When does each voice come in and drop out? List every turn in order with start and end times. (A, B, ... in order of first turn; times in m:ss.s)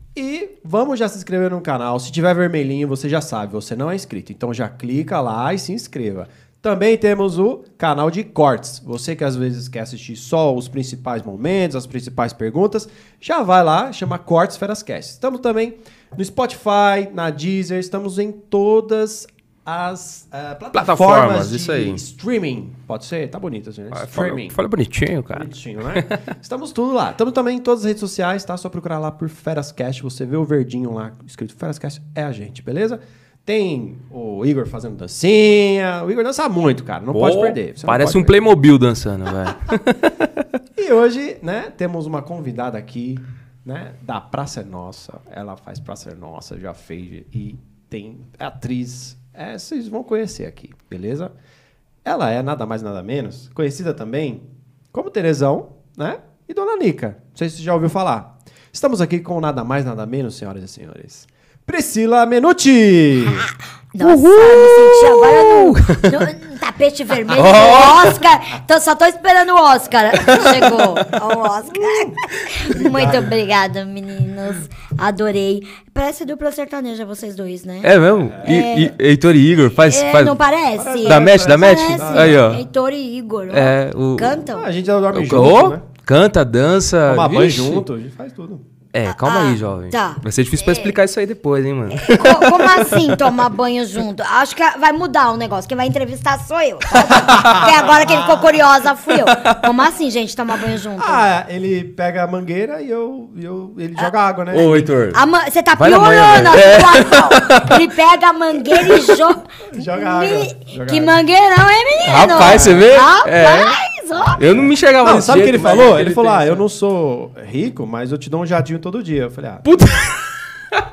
0:00.1-0:24.6 A
0:20.7-0:22.0 B
0:23.9-0:26.2 B
0:25.3-0:38.4 A
0:37.1-0:40.4 B
0:40.7-0:51.3 A
0:52.0-1:03.5 A
1:03.2-1:19.0 C
1:04.0-1:06.3 B
1:07.3-1:08.2 B
1:10.2-1:11.1 B
1:12.7-1:13.3 A
1:17.8-1:20.4 B
1:18.2-1:18.7 A
1:19.7-1:24.7 C
1:20.8-1:22.6 A
1:21.0-1:22.6 B
1:23.5-1:24.4 B
1:24.4-1:25.8 A
1:25.1-1:27.9 B
1:27.0-1:28.6 A
1:28.9-1:33.3 B
1:29.0-1:30.9 C
1:31.9-1:41.2 C
1:37.0-1:37.7 B
1:37.3-1:38.6 A
1:39.2-1:39.6 B
1:41.0-1:44.9 A
1:44.5-1:45.2 B
1:45.1-1:54.4 C
1:45.8-1:47.8 B
1:48.8-1:49.1 B
1:49.6-1:51.2 A
1:52.0-1:53.8 B
1:52.2-1:53.0 A
1:54.4-1:56.6 B
1:55.0-1:59.7 A
1:59.6-2:00.8 B